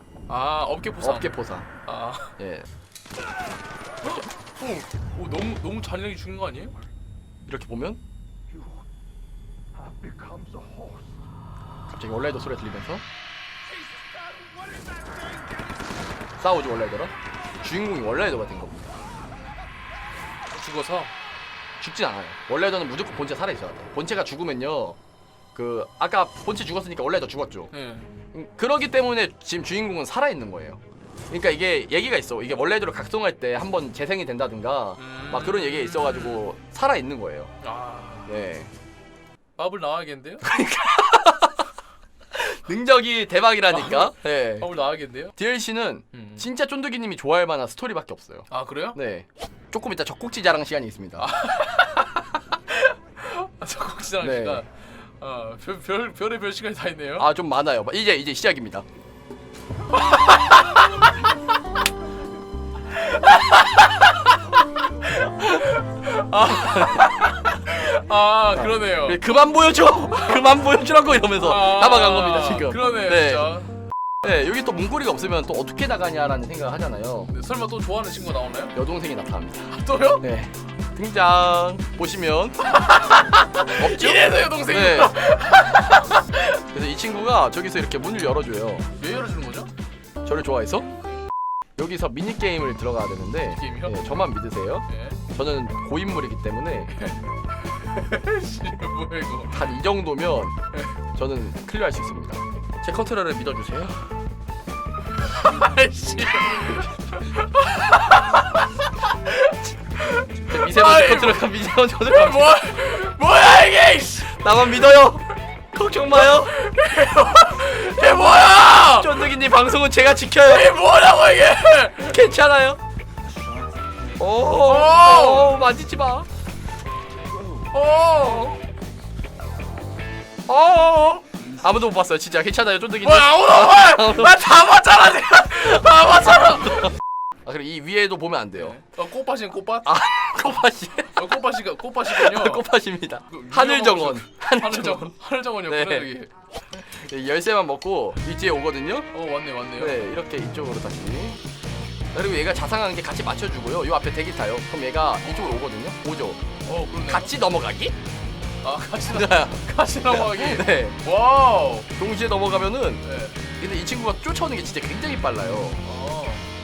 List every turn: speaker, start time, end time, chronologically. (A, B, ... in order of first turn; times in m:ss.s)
0:00.3-0:01.3 A
0:01.0-0:01.7 B
0:01.8-0:02.4 A
0:02.4-0:02.7 B
0:04.0-0:06.7 A
0:07.5-0:08.0 B
0:11.9-0:13.0 B
0:16.4-0:19.0 B
0:20.5-0:21.1 A
0:21.8-0:25.0 B
0:25.5-0:27.7 B
0:27.7-0:28.1 A
0:28.3-0:30.8 B
0:31.3-0:37.5 B
0:35.0-0:36.4 A
0:37.6-0:38.4 A
0:38.3-0:38.7 B
0:39.6-0:40.4 A
0:40.4-0:41.6 B
0:42.3-0:44.8 B
0:43.7-0:45.3 A
0:45.4-0:51.3 B
0:46.1-0:46.4 A
0:48.5-0:49.0 A
0:51.2-0:57.3 A
0:54.2-0:54.6 B
0:57.2-0:58.8 B
1:00.0-1:00.6 A
1:02.9-1:09.2 A
1:06.5-1:07.1 B
1:08.5-1:13.6 B
1:10.2-1:10.6 A
1:11.3-1:13.7 A
1:14.2-1:17.3 B
1:17.3-1:18.8 A
1:18.7-1:22.7 B
1:19.7-1:20.2 A
1:22.7-1:26.5 A
1:23.8-1:25.3 B
1:26.7-1:28.9 B
1:29.0-1:29.7 A
1:30.2-1:30.9 B
1:31.8-1:37.1 B
1:33.6-1:34.0 A
1:34.9-1:35.2 A
1:37.0-1:39.7 A
1:39.5-1:40.6 B
1:41.1-1:44.0 B
1:45.2-1:51.5 A
1:50.5-1:52.7 B
1:52.0-1:54.4 A
1:54.2-1:56.6 B
1:56.1-1:59.3 A
1:58.0-2:00.8 B
2:00.4-2:02.2 A
2:01.9-2:02.8 B
2:04.2-2:06.3 B
2:04.5-2:05.6 A
2:07.7-2:08.6 A
2:08.2-2:08.6 B
2:10.5-2:14.8 B
2:13.0-2:16.9 A
2:15.5-2:16.9 B
2:17.4-2:18.8 B
2:18.6-2:20.0 A
2:19.8-2:21.4 B
2:21.1-2:22.6 A
2:22.0-2:25.1 B
2:23.3-2:26.3 A
2:25.7-2:26.1 B
2:26.7-2:29.1 B
2:29.1-2:30.1 A
2:29.8-2:31.4 B
2:32.1-2:36.4 B
2:36.6-2:37.3 A
2:36.9-2:37.9 B
2:38.6-2:41.9 A
2:39.0-2:41.0 B
2:42.0-2:43.0 B
2:43.0-2:43.4 A
2:43.6-2:45.8 B
2:45.8-2:46.4 A